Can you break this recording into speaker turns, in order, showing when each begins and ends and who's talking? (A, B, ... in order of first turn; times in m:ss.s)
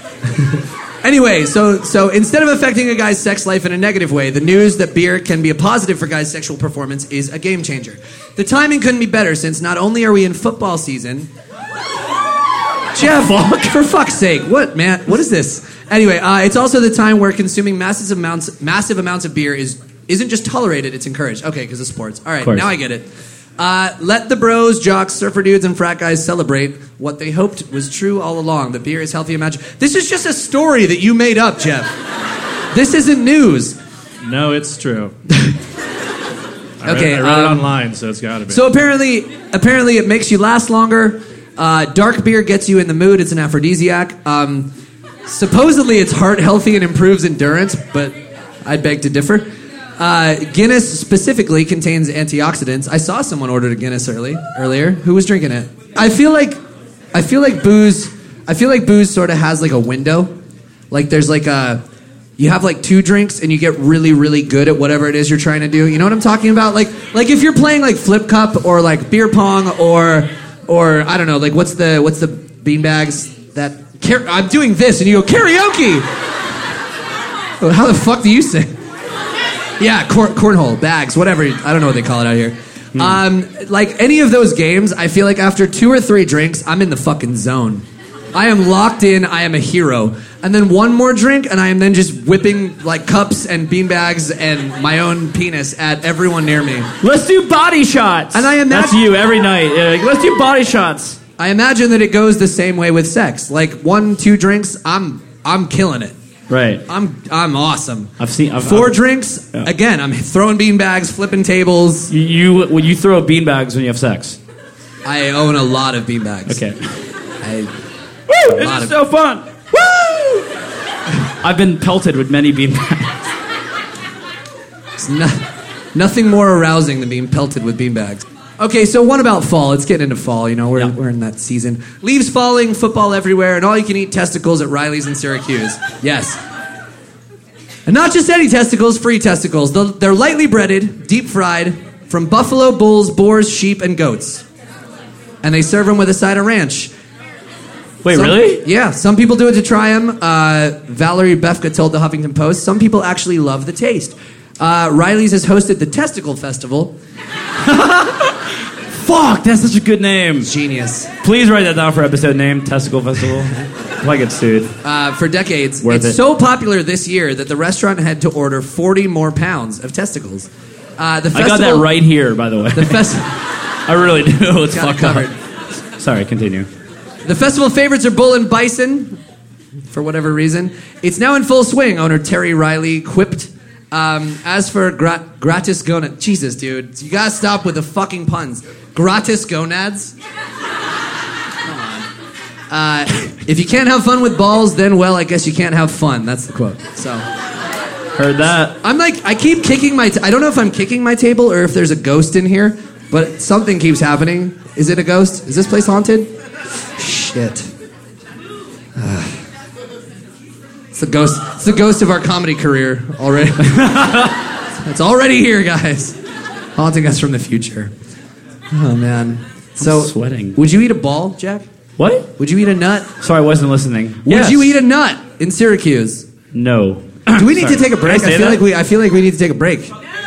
0:00.2-0:11.3 A
0:12.9-0:31.9 A
0:22.4-0:22.7 B
0:32.7-0:33.8 A
0:34.2-0:35.1 C
0:36.8-0:38.6 C
0:36.8-0:37.7 A
0:38.5-0:44.7 A
0:45.2-0:56.6 A
0:57.1-1:00.3 A
1:00.9-1:01.8 A
1:02.4-1:16.0 A
1:17.6-1:18.7 A
1:19.8-1:36.9 A
1:22.9-1:23.2 B
1:37.0-1:41.2 B
1:38.3-1:39.1 A
1:41.4-1:46.1 A
1:46.5-1:46.8 B
1:46.9-1:52.1 A
1:48.2-1:49.0 B
1:52.1-1:54.4 B
1:55.0-1:56.6 A
1:56.5-1:56.8 B
1:57.4-1:57.7 A
1:58.3-2:00.4 B
1:58.4-1:58.9 A
2:01.4-2:03.1 B
2:05.0-2:16.4 A
2:17.8-2:24.4 A
2:25.4-2:26.9 A
2:28.0-2:28.6 B
2:28.1-2:36.9 A
2:37.6-2:38.4 B
2:38.9-2:40.5 B
2:40.4-2:41.1 A
2:41.2-2:44.7 B
2:44.8-2:51.9 A
2:45.8-2:46.2 B
2:51.3-2:53.1 B
2:52.7-2:53.4 A
2:53.9-2:55.3 B
2:54.7-2:55.3 A
2:56.0-2:56.7 B
2:57.2-2:59.2 A
2:59.9-3:10.1 A
3:11.6-3:12.1 A
3:12.7-3:17.3 A
3:18.2-3:18.7 B
3:18.8-3:26.3 A
3:27.0-3:27.7 A
3:29.0-3:29.4 A
3:30.9-3:34.0 A
3:33.6-3:34.4 B
3:34.8-3:36.2 A
3:36.8-3:37.9 A
3:38.7-3:41.6 A
3:39.8-3:40.6 B
3:42.0-3:42.3 B
3:42.4-3:43.1 A
3:43.2-3:44.8 B
3:44.2-3:46.3 A
3:46.5-3:48.6 B
3:47.3-3:49.9 A